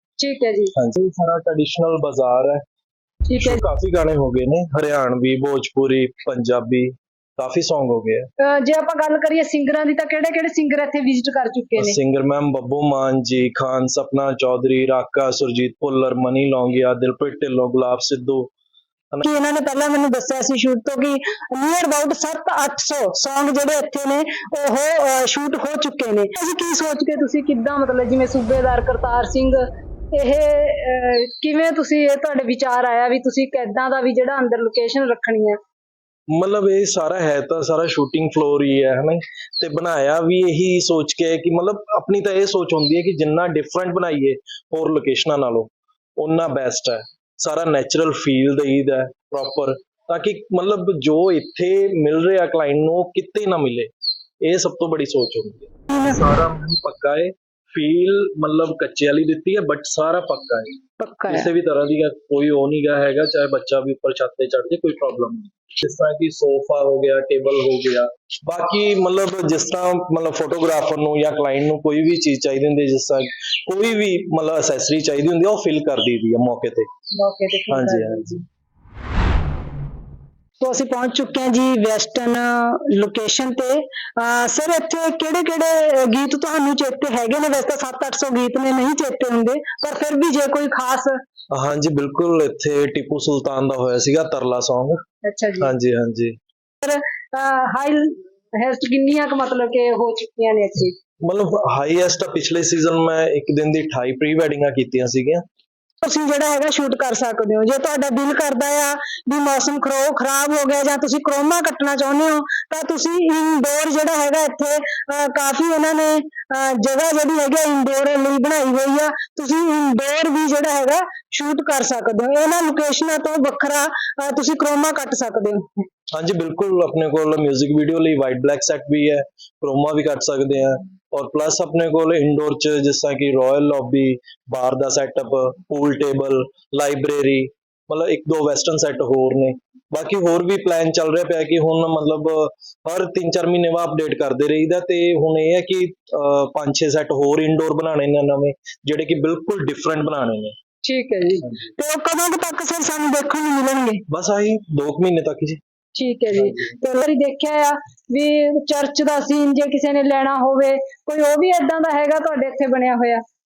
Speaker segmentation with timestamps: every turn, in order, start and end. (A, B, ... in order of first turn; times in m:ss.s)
0:00.2-0:00.7 A
0:00.8-0:02.6 B
0:03.3-0:03.6 A
0:03.4-0:08.3 B
0:08.4-0:12.0 A
0:11.8-0:18.5 B
0:19.2-0:29.6 A
0:30.1-0:35.6 A
0:36.3-0:53.9 B
0:54.4-1:16.9 B
0:55.9-0:56.2 A
1:01.0-1:01.5 A
1:17.1-1:18.4 A
1:17.7-1:18.4 B
1:20.6-1:31.2 A
1:31.5-1:35.0 B
1:35.2-1:35.7 A
1:35.6-1:36.4 B
1:36.8-1:41.0 A
1:41.2-1:45.4 B
1:46.0-2:05.7 A
2:06.1-2:30.5 B
2:30.8-2:34.0 A
2:34.1-2:35.6 B
2:36.0-2:43.2 A
2:36.3-2:36.7 B